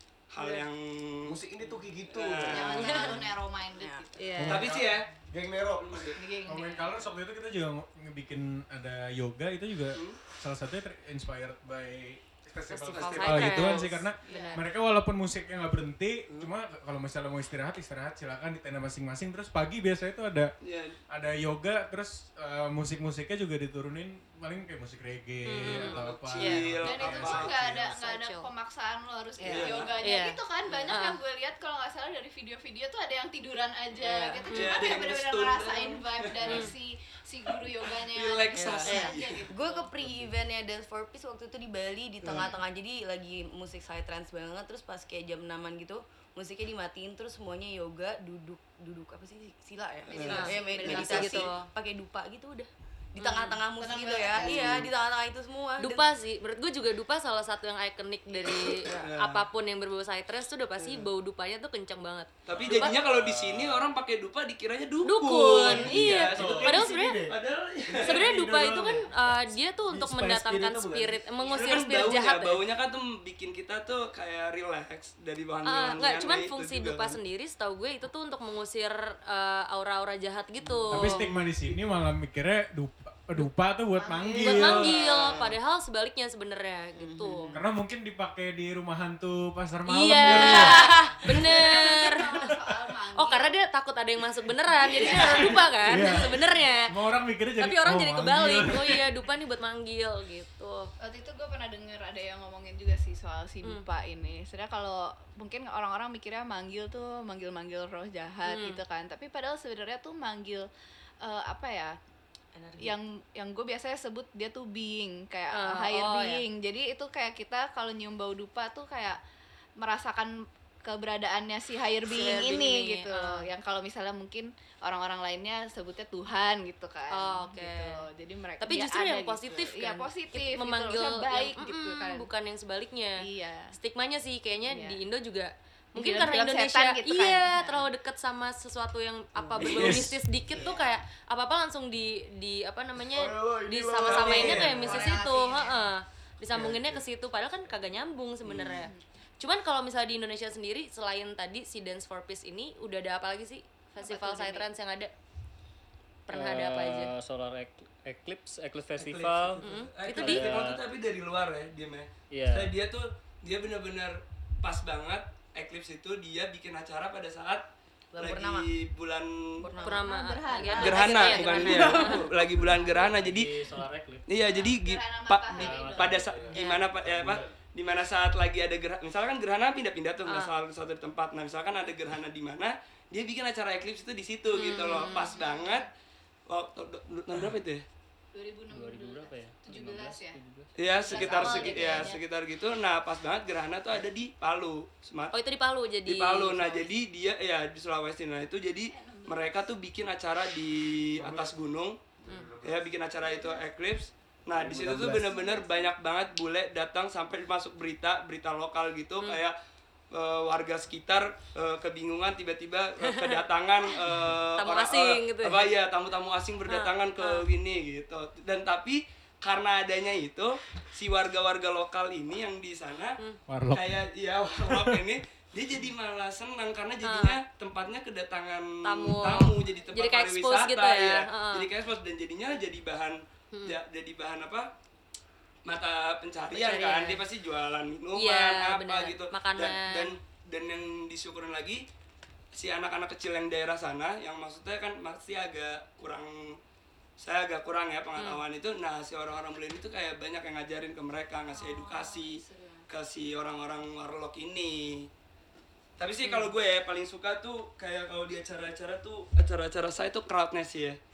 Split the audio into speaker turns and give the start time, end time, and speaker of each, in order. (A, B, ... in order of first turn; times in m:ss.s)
0:00.3-0:01.4 A
0:00.4-0:00.6 B
0:01.2-0:02.8 C
0:02.1-0:03.1 A
0:02.5-0:04.3 D
0:03.8-0:04.1 E
0:04.2-0:04.7 B
0:04.4-0:04.9 F
0:04.5-0:05.1 A
0:05.3-0:06.2 C
0:05.8-0:06.2 A
0:06.2-0:07.1 D
0:06.4-0:20.5 F
0:09.9-0:10.2 A
0:12.7-0:13.9 B
0:12.8-0:13.1 C
0:12.9-0:13.9 A
0:14.2-0:14.8 D
0:20.6-0:21.0 A
0:21.1-0:27.7 F
0:25.5-0:26.6 B
0:25.6-0:27.6 A
0:26.8-0:39.9 D
0:27.6-0:28.5 B
0:29.4-0:29.9 A
0:29.4-0:30.4 B
0:30.9-0:31.2 B
0:34.0-0:34.8 B
0:34.5-0:36.7 A
0:37.9-0:39.5 A
0:38.9-0:39.1 B
0:39.5-0:56.1 E
0:42.2-0:42.5 A
0:42.3-0:42.6 D
0:50.1-0:51.2 A
0:50.1-0:51.4 D
0:50.3-0:51.6 B
0:53.2-0:53.6 B
0:53.8-0:54.9 D
0:54.3-0:54.9 A
0:55.8-1:02.9 B
0:58.7-0:59.4 A
1:02.5-1:09.0 A
1:02.5-1:03.9 C
1:05.0-1:07.2 B
1:05.6-1:07.4 C
1:08.0-1:12.6 B
1:09.9-1:11.2 C
1:11.4-1:12.1 D
1:11.5-1:17.2 A
1:15.6-1:21.3 B
1:20.9-1:25.0 F
1:23.9-1:25.0 D
1:24.4-1:27.6 B
1:25.0-1:25.4 A
1:27.0-1:27.5 E
1:27.5-1:31.6 F
1:29.9-1:32.5 B
1:30.3-1:33.6 D
1:33.2-1:36.8 B
1:34.9-1:35.6 D
1:35.9-1:36.3 C
1:35.9-1:36.4 F
1:36.9-1:39.1 F
1:37.6-1:40.9 B
1:41.0-1:50.7 D
1:48.5-1:48.8 B
1:51.2-1:52.0 D
1:52.6-1:53.0 E
1:52.8-1:59.2 D
1:55.5-1:56.4 B
1:59.8-2:00.3 D
2:00.8-2:12.3 D
2:02.1-2:03.4 B
2:07.1-2:08.1 B
2:08.6-2:13.2 B
2:13.2-2:13.8 D
2:13.8-2:35.1 B
2:14.7-2:15.0 D
2:16.0-2:17.8 D
2:19.4-2:20.2 A
2:20.5-2:20.8 D
2:23.1-2:25.2 C
2:24.1-2:24.7 A
2:24.4-2:25.8 D
2:26.5-2:27.0 C
2:28.4-2:28.9 C
2:34.0-2:34.7 D
2:36.3-2:37.1 B
2:36.3-2:39.6 G
2:39.0-2:47.6 A
2:39.6-2:40.5 B
2:40.2-2:40.8 G
2:42.3-2:42.7 G
2:48.1-2:48.7 E
2:48.2-2:49.4 A
2:49.6-2:53.0 E
2:49.8-2:52.1 D
2:49.8-2:52.2 B
2:50.8-2:53.5 A
2:53.1-2:54.2 G
2:54.3-3:05.9 A
2:54.6-2:56.4 D
2:55.5-2:56.4 G
2:56.3-2:57.6 C
2:56.6-2:56.8 B
3:04.5-3:05.3 B
3:04.7-3:05.9 D
3:06.5-3:07.8 A
3:08.3-3:10.4 D
3:08.7-3:10.7 G
3:10.8-3:15.3 A
3:11.0-3:12.2 E
3:11.0-3:12.1 D
3:15.3-3:16.6 B
3:16.1-3:22.0 A
3:16.6-3:16.9 D
3:18.9-3:19.7 D
3:21.2-3:21.6 C
3:22.2-3:22.9 C
3:22.6-3:29.6 A
3:23.2-3:23.7 D
3:24.6-3:25.3 C
3:24.8-3:25.1 F
3:25.1-3:25.9 D
3:30.1-3:43.2 A
3:33.0-3:33.4 B
3:34.6-3:35.7 B
3:36.7-3:37.4 B
3:43.5-3:44.0 F
3:43.7-3:54.7 A
3:44.7-3:45.0 F
3:47.0-3:47.4 B
3:48.8-3:51.7 B
3:49.4-3:49.9 D
3:55.7-4:01.8 A
3:56.5-3:57.2 B
3:58.2-4:00.1 B
4:02.5-4:06.6 A
4:07.2-4:15.1 A
4:08.2-4:08.4 B
4:11.6-4:12.8 D
4:16.0-4:21.0 A
4:16.2-4:16.5 B